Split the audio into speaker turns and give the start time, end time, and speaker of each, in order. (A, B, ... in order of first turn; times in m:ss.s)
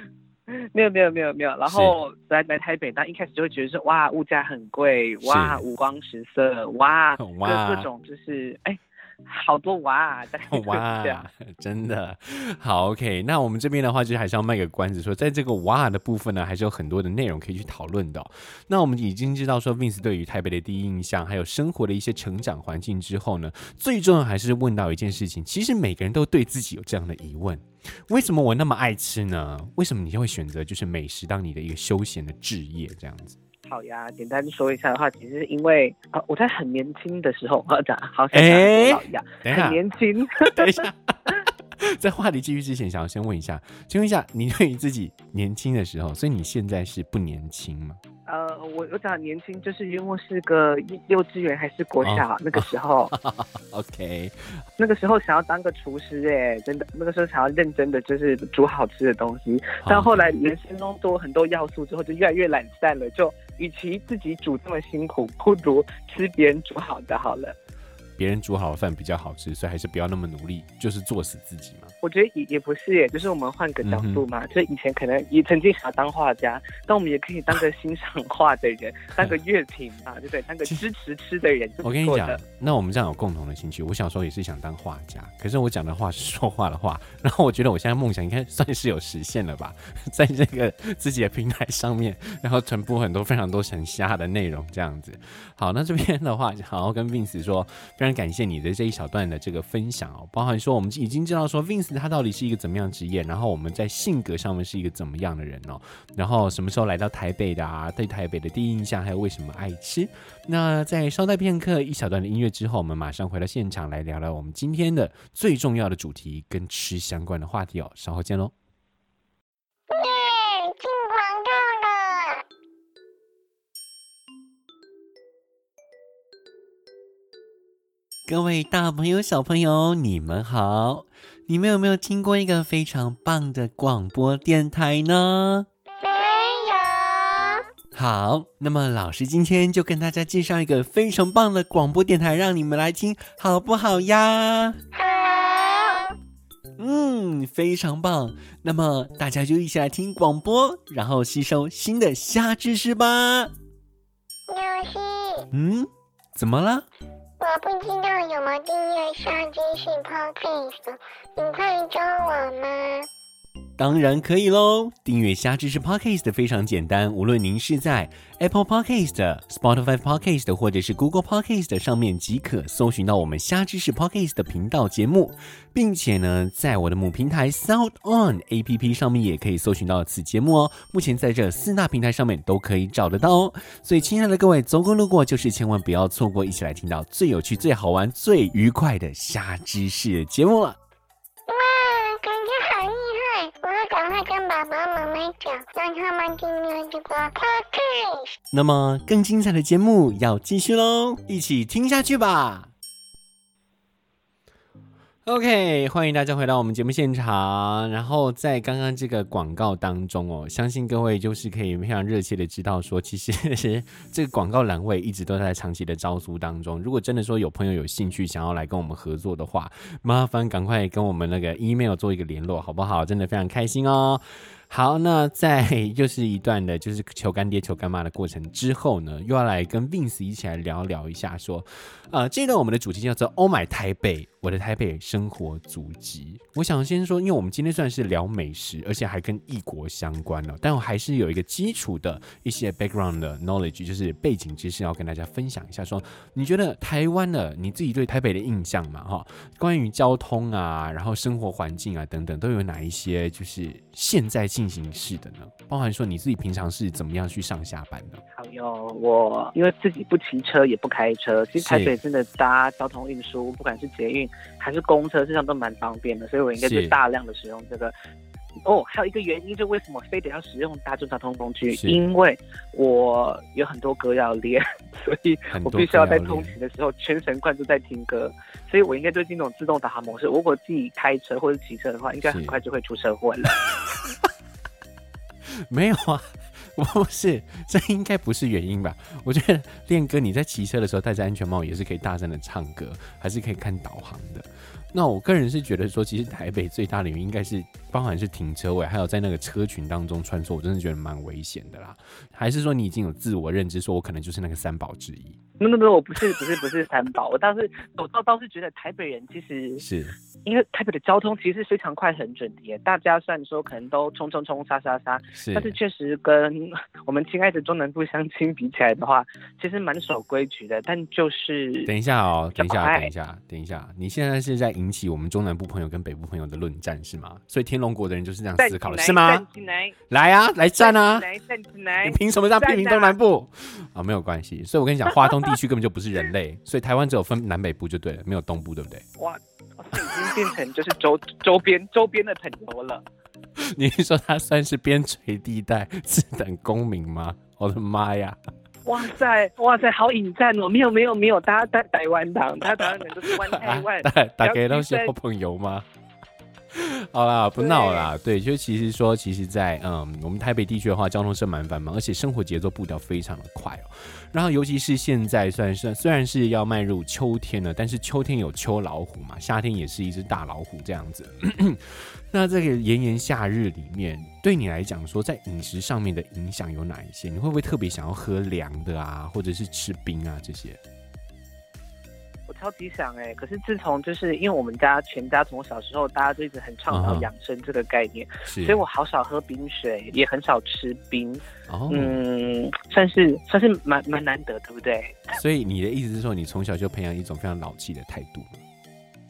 0:00.5-0:11.2 A
0:01.7-0:02.0 B
0:05.2-0:05.6 B
0:07.2-0:07.9 B
0:10.5-0:33.4 B
0:33.7-0:40.9 A
0:38.3-0:39.8 B
0:40.5-0:48.0 B
0:48.3-0:53.1 A
0:52.0-0:54.6 B
0:54.8-1:07.6 A
0:59.8-1:00.3 B
1:08.2-1:11.9 B
1:12.0-1:22.4 A
1:13.8-1:14.2 B
1:21.8-1:58.5 B
1:59.9-2:02.4 C
2:08.3-2:15.7 B
2:16.0-2:17.7 C
2:17.9-2:24.8 B
2:24.9-2:26.2 C
2:26.8-2:33.5 B
2:34.5-2:35.5 C
2:35.5-2:36.9 B
2:37.4-2:43.1 C
2:43.8-3:10.8 B
3:11.5-3:18.4 C
3:18.5-3:22.7 B
3:25.3-4:18.2 B
4:18.3-4:27.9 A
4:21.6-4:22.0 B
4:26.6-4:26.9 B
4:28.6-4:43.6 A
4:31.7-4:32.0 B
4:35.5-4:36.6 B
4:42.2-4:42.6 B
4:45.5-5:05.4 B
5:05.6-5:09.8 A
5:09.8-5:10.2 B
5:10.4-5:21.9 A
5:15.3-5:15.8 B
5:21.9-5:29.4 B
5:22.6-5:23.1 A
5:28.6-5:30.0 A
5:30.1-5:31.3 B
5:30.8-5:33.2 A
5:32.0-5:39.0 B
5:39.2-5:43.0 A
5:43.6-5:48.4 B
5:48.8-5:55.1 A
5:52.8-5:55.9 B
5:56.7-6:20.8 B
5:57.6-5:58.1 A
6:22.5-6:35.4 A
6:26.9-6:27.3 B
6:28.4-6:28.8 B
6:31.7-6:32.2 B
6:35.3-6:38.6 B